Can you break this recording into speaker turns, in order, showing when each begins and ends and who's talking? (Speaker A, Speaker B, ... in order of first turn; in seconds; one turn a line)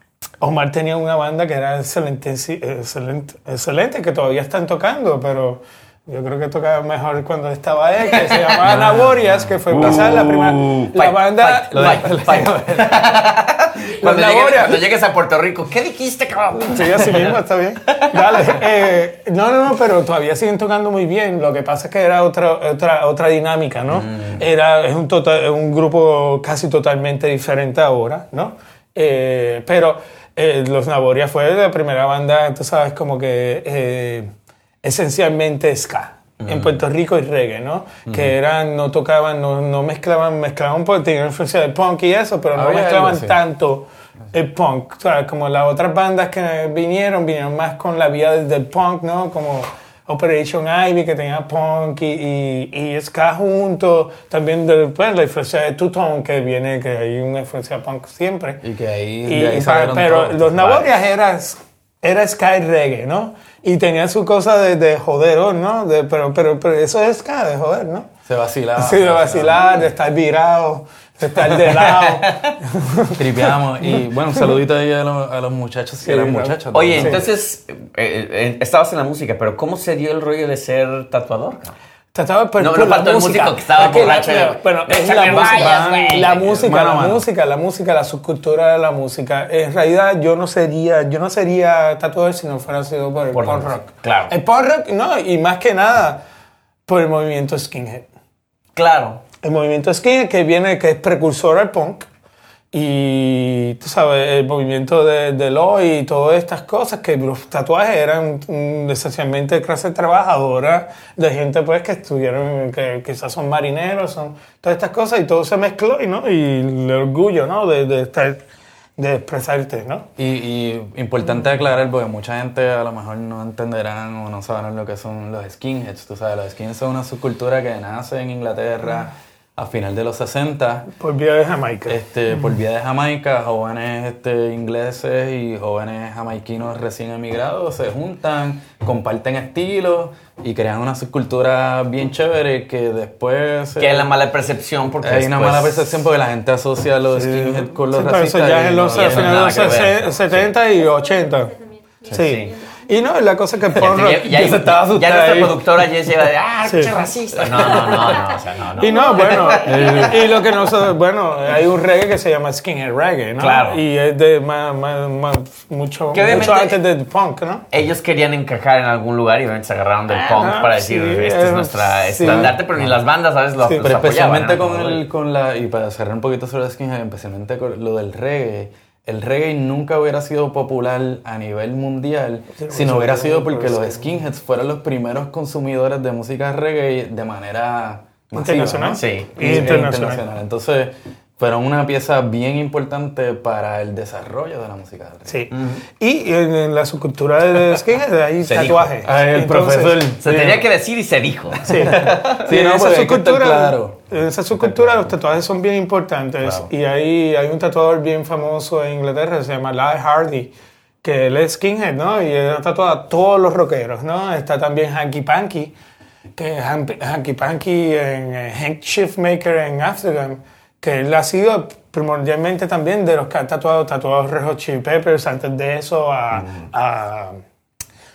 Speaker A: 0.4-12.2
Speaker B: 8.3-8.6
Speaker C: 8.6-10.3
Speaker B: 9.7-18.6
Speaker C: 11.7-13.1
Speaker A: 14.0-14.8
Speaker A: 16.6-34.3
Speaker B: 23.9-24.4
Speaker A: 34.8-58.6
Speaker B: 36.4-36.8
Speaker C: 38.1-38.3
Speaker C: 42.5-43.4
Speaker C: 58.6-60.9
Speaker A: 59.3-68.1
Speaker C: 68.2-69.7
Speaker A: 68.8-74.5
Speaker B: 71.7-72.5
Speaker C: 73.2-77.2
Speaker A: 76.0-77.2
Speaker B: 76.7-81.8
Speaker A: 82.1-96.2
Speaker B: 82.6-86.7
Speaker C: 86.6-87.2
Speaker B: 93.3-94.3
Speaker A: 96.9-98.1
Speaker B: 98.8-99.2
Speaker A: 99.4-102.1
Speaker A: 102.7-118.4
Speaker A: 119.0-120.1
Speaker C: 120.2-130.9
Speaker A: 130.9-132.0
Speaker C: 131.9-144.1
Speaker B: 143.8-145.9
Speaker C: 145.0-149.7
Speaker A: 147.1-151.5
Speaker B: 148.9-150.5
Speaker A: 152.1-154.5
Speaker B: 152.1-152.5
Speaker B: 153.7-160.1
Speaker C: 154.2-155.8
Speaker A: 156.6-156.9
Speaker C: 157.4-158.1
Speaker A: 157.6-158.0
Speaker A: 158.8-167.6
Speaker C: 159.6-160.3
Speaker B: 163.4-163.8
Speaker B: 166.1-166.8
Speaker B: 167.7-175.0
Speaker A: 170.1-172.6
Speaker C: 172.2-172.9
Speaker C: 173.8-195.3
Speaker A: 182.6-184.0
Speaker A: 188.3-190.2
Speaker B: 189.0-189.3
Speaker A: 195.3-200.2
Speaker B: 195.5-195.8
Speaker B: 198.4-198.9
Speaker C: 199.0-200.7
Speaker B: 200.2-202.4
Speaker C: 201.5-204.0
Speaker A: 201.6-210.5
Speaker C: 204.6-205.1
Speaker A: 211.0-215.7
Speaker A: 216.3-227.4
Speaker B: 226.3-226.6